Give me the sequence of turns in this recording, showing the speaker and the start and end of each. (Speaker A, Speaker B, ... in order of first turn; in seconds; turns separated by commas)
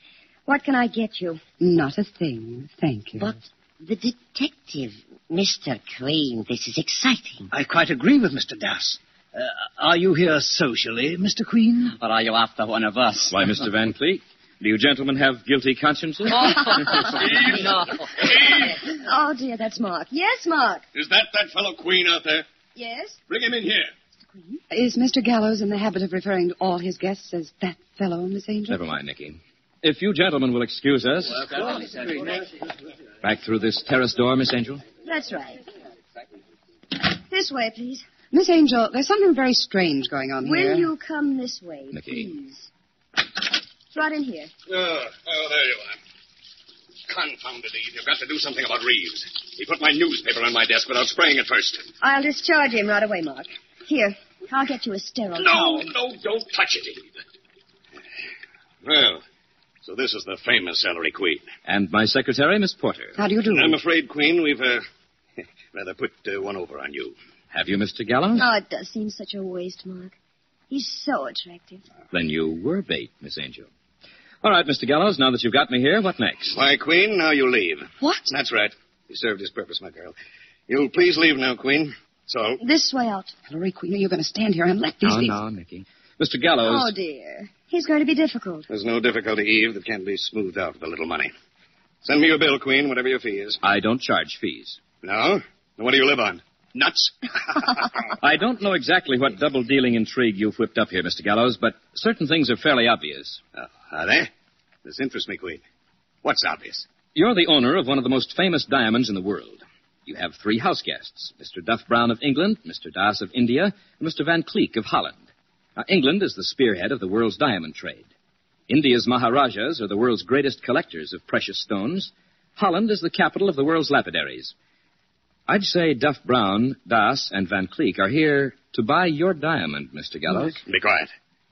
Speaker A: 0.5-1.4, Speaker B: 1.6-3.3, Speaker C: 3.2-7.5, Speaker D: 7.5-11.9, Speaker E: 11.9-13.4, Speaker F: 13.3-16.9, Speaker E: 16.4-18.0, Speaker G: 17.3-17.5, Speaker A: 18.9-20.8, Speaker G: 20.9-22.4, Speaker A: 22.8-23.2, Speaker G: 23.3-23.9, Speaker A: 24.3-24.6, Speaker B: 24.7-28.8, Speaker F: 28.7-31.5, Speaker F: 33.2-34.8, Speaker A: 35.0-35.6, Speaker A: 37.0-38.1, Speaker B: 38.3-40.9, Speaker A: 40.4-42.7, Speaker F: 41.9-42.3, Speaker A: 43.9-44.5, Speaker G: 44.7-46.0, Speaker G: 47.1-51.9, Speaker A: 52.0-55.9, Speaker G: 55.4-57.1, Speaker G: 58.8-59.2, Speaker G: 59.8-61.5, Speaker F: 61.7-63.2, Speaker B: 63.2-63.8, Speaker G: 63.5-64.8, Speaker G: 65.7-67.2, Speaker F: 67.5-68.5, Speaker A: 68.3-70.1, Speaker A: 70.7-71.8, Speaker F: 72.1-73.7, Speaker F: 74.4-76.6, Speaker G: 76.5-80.2, Speaker B: 78.0-78.3, Speaker G: 80.7-82.6, Speaker A: 82.6-83.3, Speaker B: 83.5-85.4, Speaker F: 85.0-86.9, Speaker A: 86.6-88.7, Speaker G: 88.7-91.3, Speaker G: 92.0-93.6, Speaker F: 93.6-94.8, Speaker G: 95.0-97.1, Speaker F: 98.2-103.4, Speaker G: 103.6-104.3, Speaker G: 104.8-105.6, Speaker G: 106.2-106.9, Speaker F: 107.1-115.2, Speaker F: 115.8-118.1, Speaker F: 118.7-124.5, Speaker F: 125.5-130.6, Speaker G: 130.6-131.1